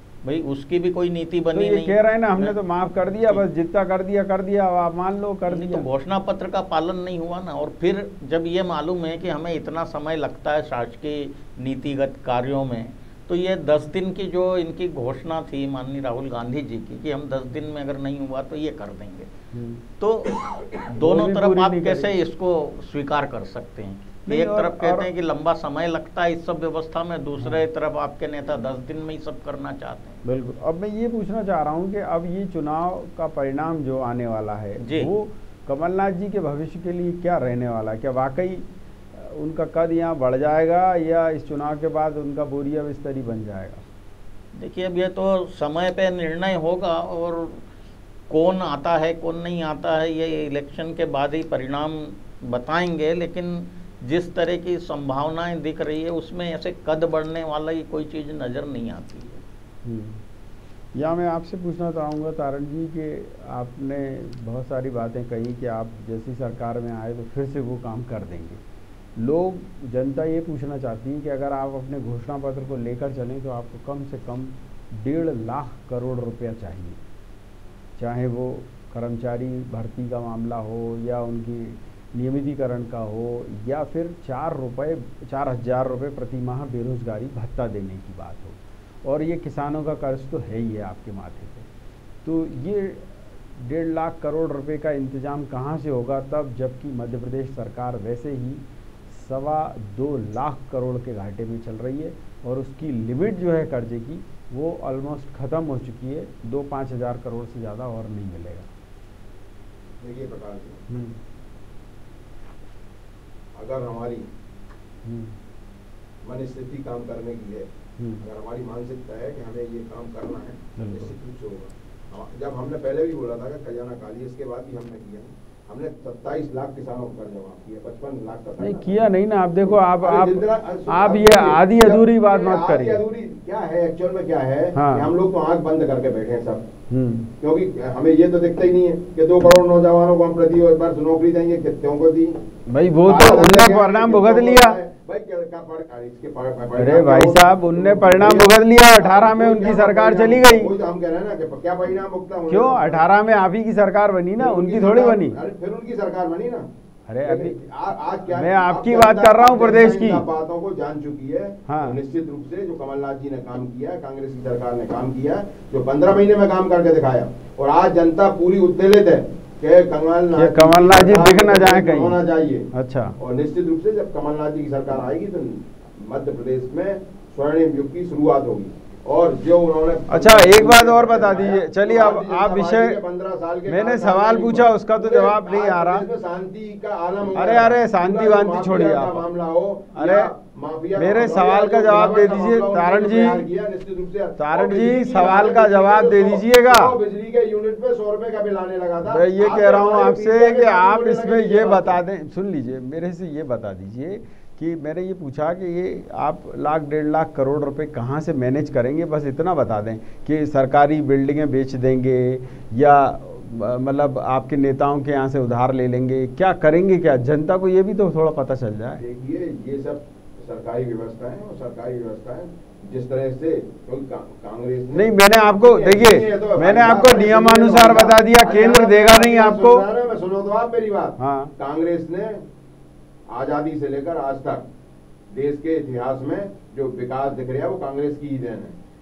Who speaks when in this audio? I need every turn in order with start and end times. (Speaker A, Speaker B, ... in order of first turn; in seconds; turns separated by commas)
Speaker A: 0.2-2.6, Speaker B: 1.5-5.9, Speaker A: 5.5-19.3, Speaker B: 19.5-19.8, Speaker A: 20.0-30.2, Speaker B: 20.9-22.1, Speaker B: 24.3-25.1, Speaker B: 30.2-43.8, Speaker A: 34.8-35.1, Speaker A: 44.5-47.6, Speaker A: 48.3-59.4, Speaker B: 59.9-60.2, Speaker B: 60.9-68.6, Speaker B: 69.2-77.0, Speaker B: 78.0-91.7, Speaker B: 92.2-108.7, Speaker C: 110.0-110.8, Speaker B: 110.9-111.2, Speaker C: 113.5-114.3, Speaker B: 115.0-115.4, Speaker C: 116.2-117.7, Speaker C: 118.2-129.1, Speaker B: 120.8-121.1, Speaker B: 128.6-133.0, Speaker C: 129.7-136.6, Speaker B: 134.8-135.1, Speaker B: 136.9-137.3, Speaker C: 137.4-142.4, Speaker B: 142.7-144.8, Speaker C: 143.0-153.1, Speaker B: 146.8-150.7, Speaker B: 152.5-155.4, Speaker C: 154.4-156.7, Speaker B: 157.1-157.6, Speaker C: 157.2-202.0, Speaker B: 158.3-160.2, Speaker B: 161.7-162.0, Speaker B: 170.3-172.2, Speaker B: 172.7-173.2, Speaker B: 180.1-183.0, Speaker B: 183.7-186.1, Speaker B: 187.3-189.2, Speaker B: 189.9-190.3, Speaker B: 191.0-193.5, Speaker B: 194.4-197.0, Speaker B: 199.1-219.0, Speaker C: 219.0-232.4, Speaker B: 224.9-229.8, Speaker B: 231.2-231.5, Speaker C: 233.3-234.7, Speaker C: 235.3-238.8